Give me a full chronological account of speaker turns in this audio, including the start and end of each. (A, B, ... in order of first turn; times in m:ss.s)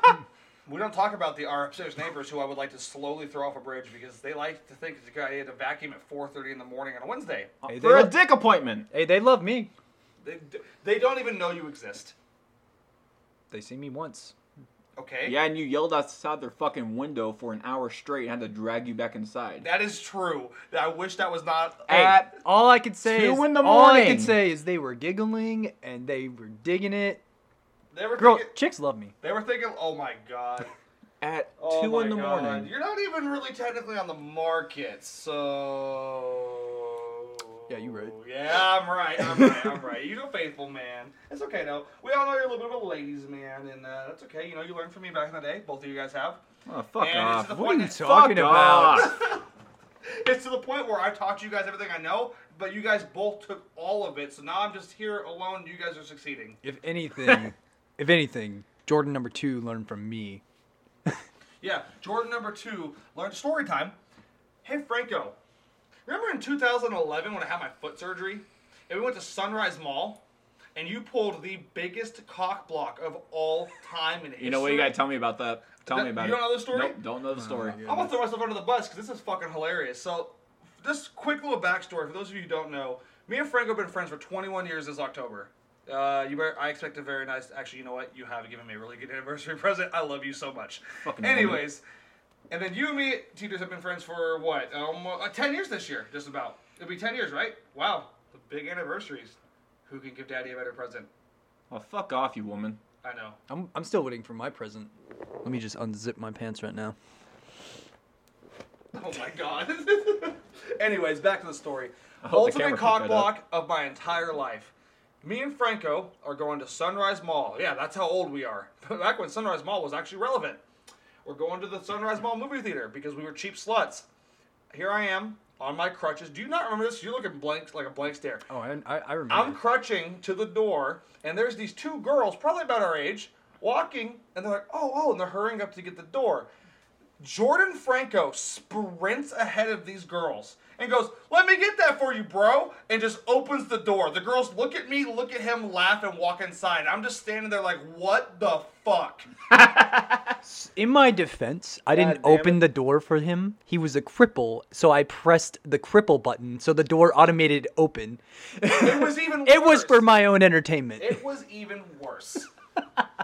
0:00.6-0:07.5 A
0:07.6-0:08.9 B
0:07.6-0:08.2 C
0:08.9-0:09.7 C
0:10.2-0:12.1 A
0:13.5-0:14.3 C
0:15.0-0:15.4 A
0:15.2-0:19.6 B
0:19.6-0:22.2 A
0:21.9-0:22.4 B
0:21.9-0:27.2 C
0:23.0-0:24.4 B
0:27.9-0:28.5 A
0:28.2-0:29.1 C
0:29.2-0:30.7 A
0:31.2-0:32.7 B
0:31.6-0:46.4 A
0:37.7-0:38.2 C
0:46.6-0:49.2 B
0:47.0-0:48.1 A
0:47.5-0:49.1 C
0:48.9-0:49.4 A
0:50.0-0:56.6 A
0:56.6-1:00.4 C
1:01.6-1:04.0 A
1:04.6-1:05.4 A
1:06.0-1:10.2 A
1:10.7-1:15.0 A
1:14.4-1:18.2 B
1:15.8-1:17.0 A
1:17.3-1:18.1 C
1:17.8-1:31.8 A
1:31.0-1:31.7 B
1:32.5-1:41.1 A
1:41.7-1:42.8 B
1:43.0-1:43.4 A
1:43.5-1:44.9 C
1:45.4-1:47.0 C
1:48.9-2:00.6 A
1:52.2-1:53.4 B
2:01.2-2:04.0 A
2:04.7-2:08.4 A
2:08.5-2:09.6 C
2:09.3-2:16.5 A
2:17.2-2:29.3 A
2:29.5-2:30.3 B
2:30.4-2:41.2 C
2:31.9-2:32.7 A
2:38.7-2:40.1 A
2:41.0-2:42.5 A